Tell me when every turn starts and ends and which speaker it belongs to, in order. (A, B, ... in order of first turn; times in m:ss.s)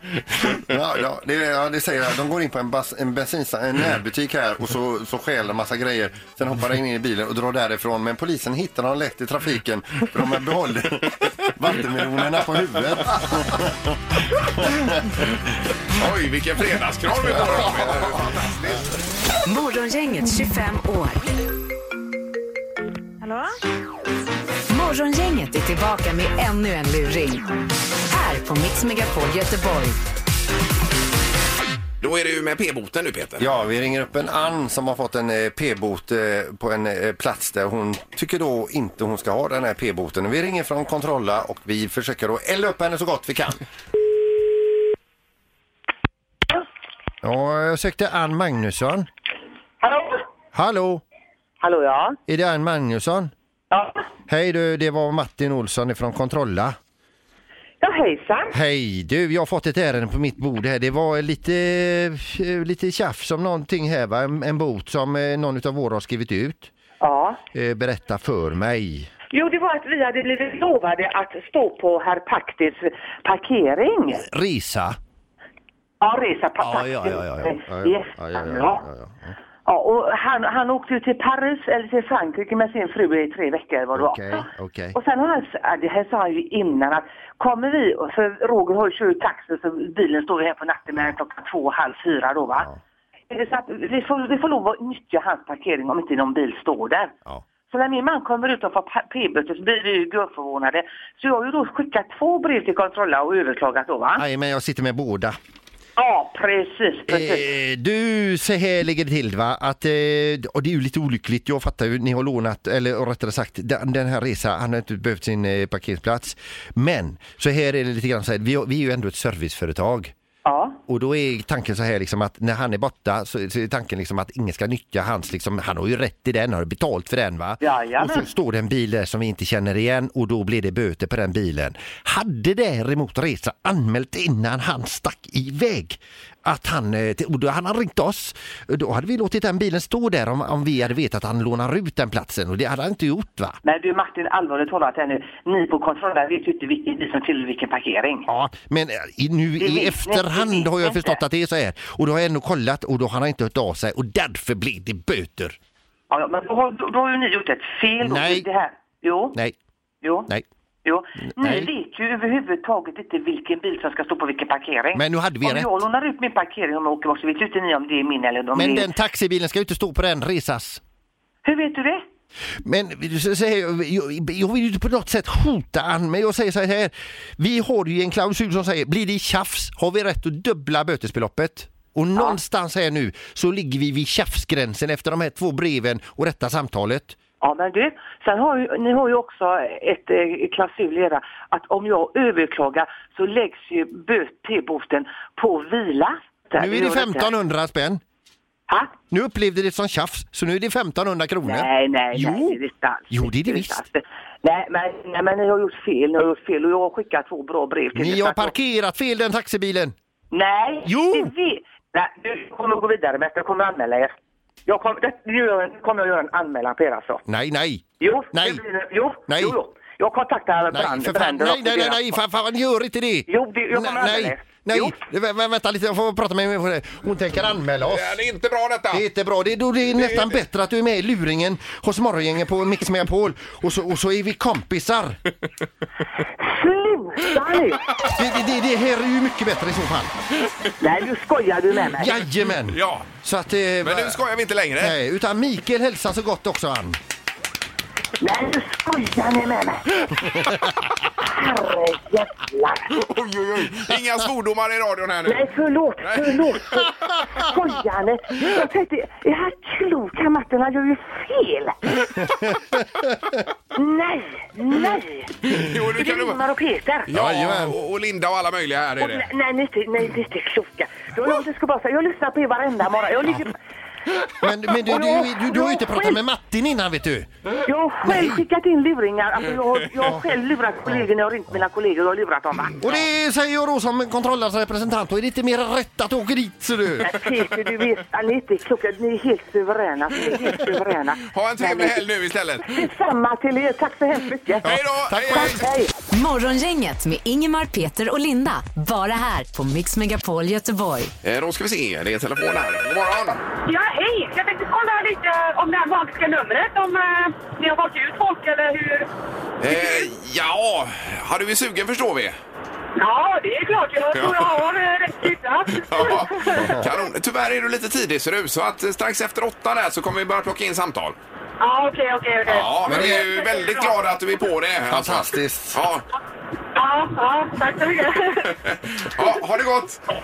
0:00.5-0:13.9 A
0:14.6-0:14.9 A
0:15.9-0:18.8 B
0:19.4-0:21.2 C
0:24.7-0:27.4 C
0:28.1-0:30.0 C
0:32.0-0:33.5 B
0:33.4-0:43.6 A
0:47.2-0:49.1 A
0:49.8-0:50.2 D
0:50.5-0:51.0 A
0:51.6-0:52.2 D
0:52.3-0:53.3 A
0:53.7-0:54.0 D
0:54.3-0:56.8 A
0:57.8-0:58.6 D
0:58.5-1:06.7 A
1:07.0-1:07.4 D
1:07.5-1:09.1 A
1:09.3-1:14.2 D
1:14.2-1:15.0 A
1:16.0-1:18.8 D
1:16.6-1:19.4 A
1:19.6-1:32.7 D
1:23.9-1:25.0 A
1:33.3-1:37.1 D
1:37.7-1:44.2 D
1:44.2-1:45.4 A
1:46.0-1:47.5 D
1:47.1-2:00.1 A
2:00.4-2:00.8 D
2:00.9-2:23.6 A
2:07.6-2:08.3 D
2:23.6-2:28.3 D
2:28.3-2:35.6 A
2:29.6-2:31.2 D
2:36.1-2:39.4 D
2:38.0-2:38.5 A
2:40.0-2:40.3 D
2:40.8-2:48.9 D
2:41.3-2:41.7 A
2:44.9-2:45.7 A
2:48.5-2:50.8 A
2:51.4-2:52.0 D
2:52.6-3:07.2 A
3:07.4-3:17.3 D
3:16.6-3:18.0 A
3:19.1-3:22.6 A
3:21.4-3:28.5 D
3:23.1-3:23.8 A
3:27.9-3:29.9 A
3:30.3-3:34.1 D
3:30.8-3:31.3 A
3:34.7-3:37.2 D
3:37.3-3:38.6 A
3:38.0-3:42.2 D
3:39.3-3:39.6 A
3:40.7-3:48.2 A
3:43.3-3:45.0 D
3:47.8-3:49.0 B
3:48.9-3:55.2 A
3:49.9-3:50.4 B
3:56.4-3:57.8 D
3:58.1-4:00.1 A
4:00.8-4:02.2 D
4:01.9-4:04.2 A
4:02.7-4:03.1 B
4:03.8-4:05.0 B
4:04.8-4:07.0 A
4:08.2-4:09.9 D
4:11.2-4:12.9 D
4:13.0-4:15.5 B
4:15.2-4:22.0 D
4:16.0-4:16.8 B
4:23.7-4:25.3 D
4:25.5-4:26.4 B
4:25.9-4:27.1 D
4:27.1-4:27.7 A
4:27.1-4:29.3 B
4:29.0-4:33.6 D
4:34.4-4:37.3 A
4:34.8-4:36.2 D
4:37.6-4:42.9 D
4:38.0-4:38.4 A
4:42.8-4:47.2 A
4:47.0-4:52.0 D
4:51.3-4:52.8 B
4:52.6-4:55.9 D
4:54.6-4:55.6 B
4:55.1-4:55.5 A
4:56.1-5:01.1 C
5:01.2-5:03.4 B
5:03.6-5:09.1 E
5:09.6-5:12.4 B
5:09.6-5:10.1 E
5:13.0-5:16.8 E
5:14.1-5:14.6 B
5:15.7-5:21.2 B
5:16.5-5:16.8 A
5:21.6-5:24.0 E
5:22.5-5:26.0 B
5:22.5-5:23.2 A
5:24.9-5:25.8 A
5:26.8-5:28.5 E
5:28.4-5:30.0 B